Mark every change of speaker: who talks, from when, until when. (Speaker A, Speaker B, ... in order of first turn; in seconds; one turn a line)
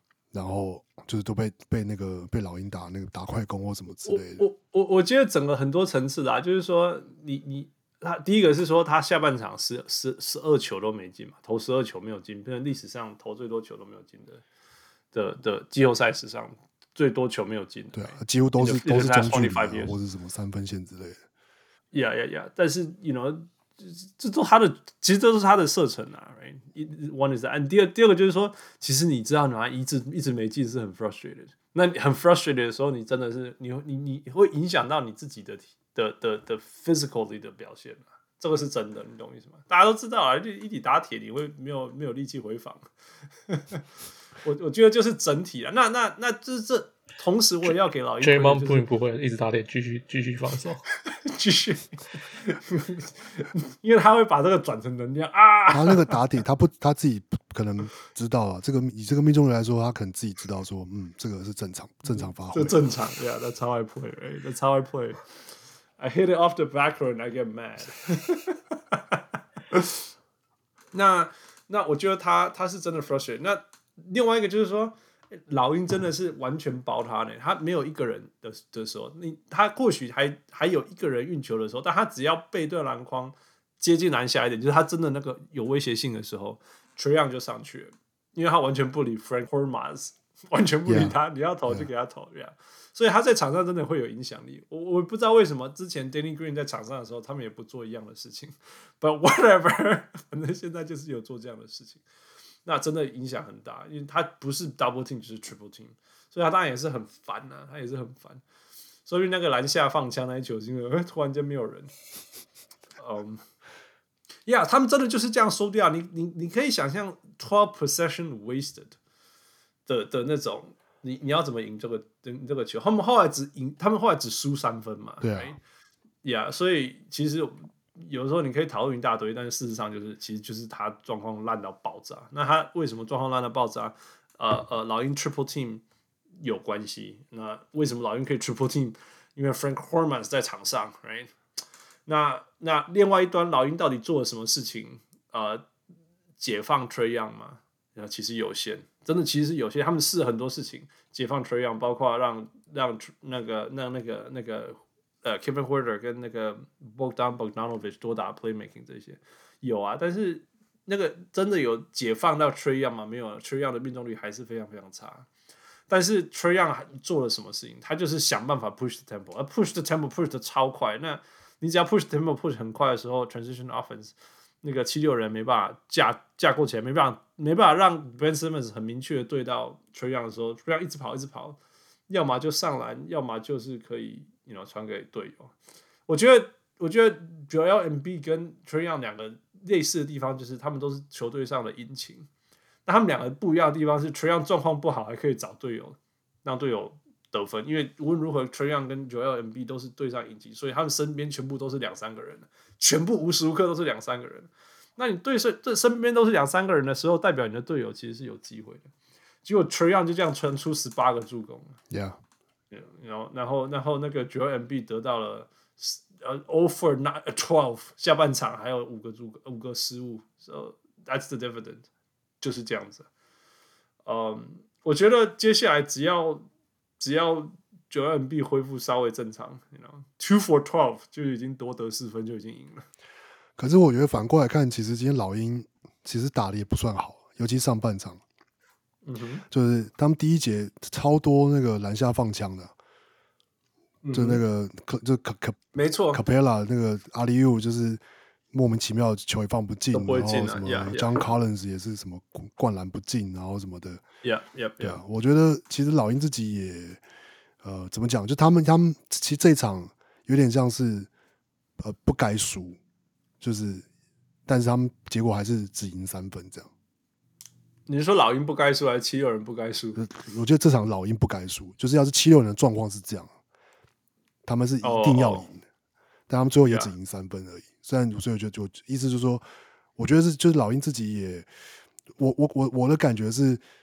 Speaker A: 0.3-4.4
Speaker B: 4.0-14.4
Speaker B: 15.1-19.9
Speaker A: 17.9-21.2
Speaker B: 21.9-42.9
Speaker B: 43.5-43.8
Speaker B: 44.4-48.9
Speaker C: 47.6-50.9
Speaker B: 51.1-56.2
Speaker A: 55.7-62.8
Speaker B: 62.1-65.3
Speaker B: 66.0-69.2
Speaker B: 69.7-70.0
Speaker B: 70.9-102.0
Speaker A: 90.9-91.1
Speaker B: 102.7-108.4
Speaker B: 109.1-111.9
Speaker B: 113.0-113.4
Speaker B: 114.5-119.0
Speaker B: 119.9-125.6
Speaker A: 125.2-125.5
Speaker B: 126.2-135.8
Speaker B: 136.4-141.3
Speaker B: 142.1-145.6
Speaker B: 146.4-165.3
Speaker B: 165.9-181.6
Speaker B: 182.1-185.5
Speaker B: 186.1-192.3
Speaker B: 192.9-208.9
Speaker B: 209.4-211.8
Speaker A: 211.9-212.2
Speaker B: 212.7-221.9
Speaker B: 222.4-223.1
Speaker B: 224.1-226.4
Speaker B: 227.0-232.9
Speaker A: 233.6-238.2
Speaker B: 239.0-239.4
Speaker A: 239.5-242.7
Speaker B: 244.0-244.4
Speaker A: 244.1-245.6
Speaker B: 245.7-246.2
Speaker A: 246.1-248.0
Speaker A: 248.5-254.0
Speaker B: 249.9-251.2
Speaker B: 254.2-255.0
Speaker A: 254.8-257.0
Speaker A: 257.6-261.1
Speaker A: 261.8-262.8
Speaker A: 263.4-263.9
Speaker A: 264.5-266.7
Speaker B: 267.9-270.0
Speaker A: 270.0-273.3
Speaker A: 274.4-275.6
Speaker B: 274.8-275.5
Speaker A: 276.3-279.4
Speaker A: 280.0-281.5
Speaker A: 282.2-283.6